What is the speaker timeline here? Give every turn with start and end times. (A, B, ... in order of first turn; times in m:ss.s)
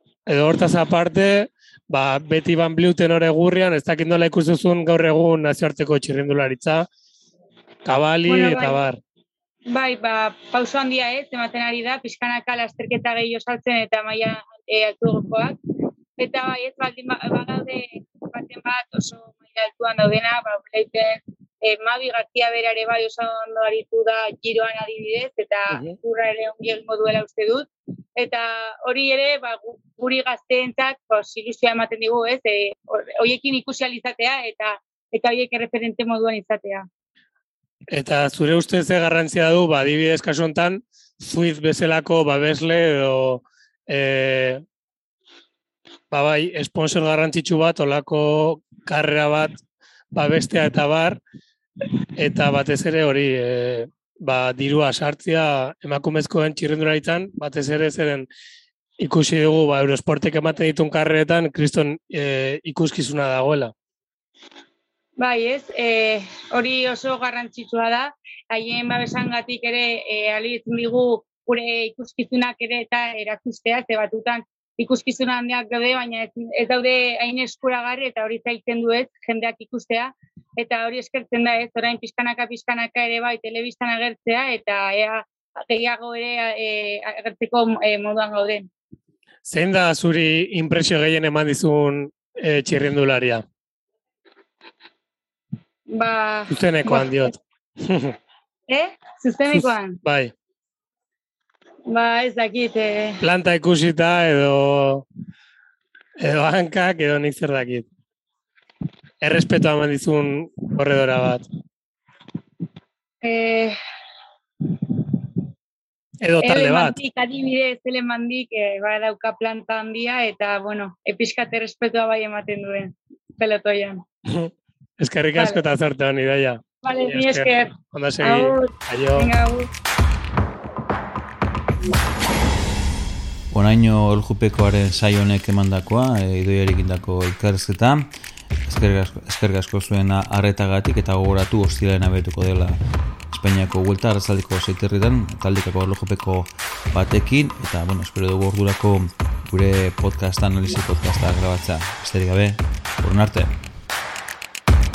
0:00.3-0:06.9 A
0:07.9-0:09.0 A
0:08.3-0:08.8 B
0:09.7-0:15.6 B
0:16.2-0:36.9 B
0:37.9-0:44.6 A
0:46.1-0:49.6 A
0:50.1-0:51.2 A
0:52.2-0:58.3 A
0:59.0-1:03.7 A
1:05.2-1:28.7 B
1:29.4-1:33.4 A
1:35.9-1:37.3 B
1:36.5-1:38.2 A
1:38.7-1:40.0 B
1:39.5-1:40.3 A
1:41.9-1:43.2 B
1:43.2-1:45.1 A
1:46.2-1:47.9 A
1:49.2-1:51.5 A
1:53.2-1:53.8 B
1:56.2-1:57.0 A
1:56.4-2:04.0 B
2:04.3-2:09.3 A
2:05.4-2:05.6 B
2:06.8-2:09.7 B
2:13.5-2:18.1 C
2:18.6-2:22.8 C
2:23.3-2:33.5 C